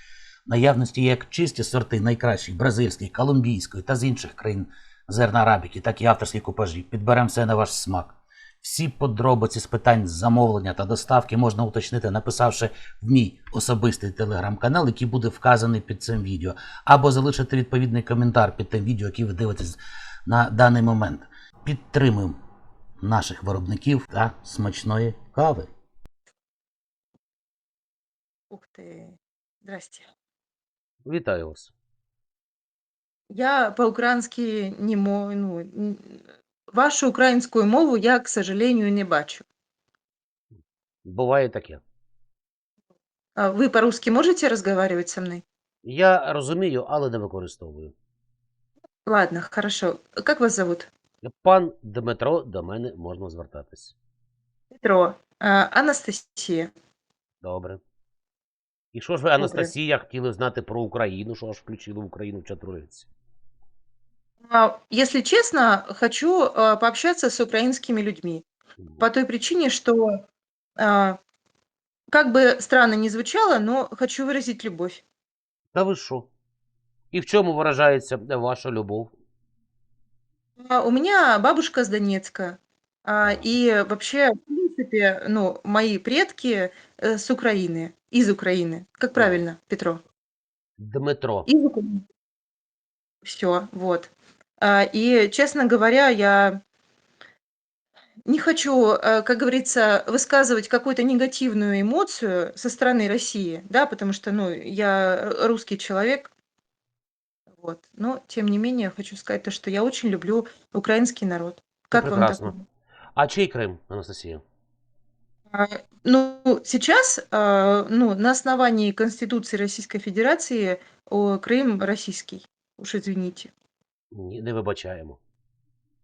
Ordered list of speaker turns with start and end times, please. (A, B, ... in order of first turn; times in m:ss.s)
0:00.5-0:22.4 A
0:23.0-0:25.7 A
0:28.5-0:30.1 B
0:31.0-0:31.7 C
0:33.3-0:36.2 B
0:36.7-0:39.4 B
0:41.0-0:41.8 C
0:43.4-0:45.4 B
0:45.8-0:47.9 C
0:49.0-0:50.9 B
0:51.2-0:53.9 C
0:54.7-0:56.7 B
0:57.4-0:57.8 C
0:58.9-1:03.1 C
0:59.4-0:59.7 B
1:04.4-1:08.4 B
1:09.0-1:10.2 B
1:10.8-1:11.2 B
1:12.1-1:15.0 B
1:15.7-1:16.3 C
1:17.1-1:19.1 C
1:20.6-1:30.0 B
1:23.2-1:23.5 C
1:29.1-1:29.4 C
1:30.8-1:31.5 C
1:31.4-1:32.0 B
1:33.2-1:36.6 B
1:38.2-1:46.3 B
1:47.5-1:52.6 B
1:51.9-1:52.5 C
1:53.2-1:54.4 C
1:55.5-2:03.5 B
2:04.1-2:05.2 C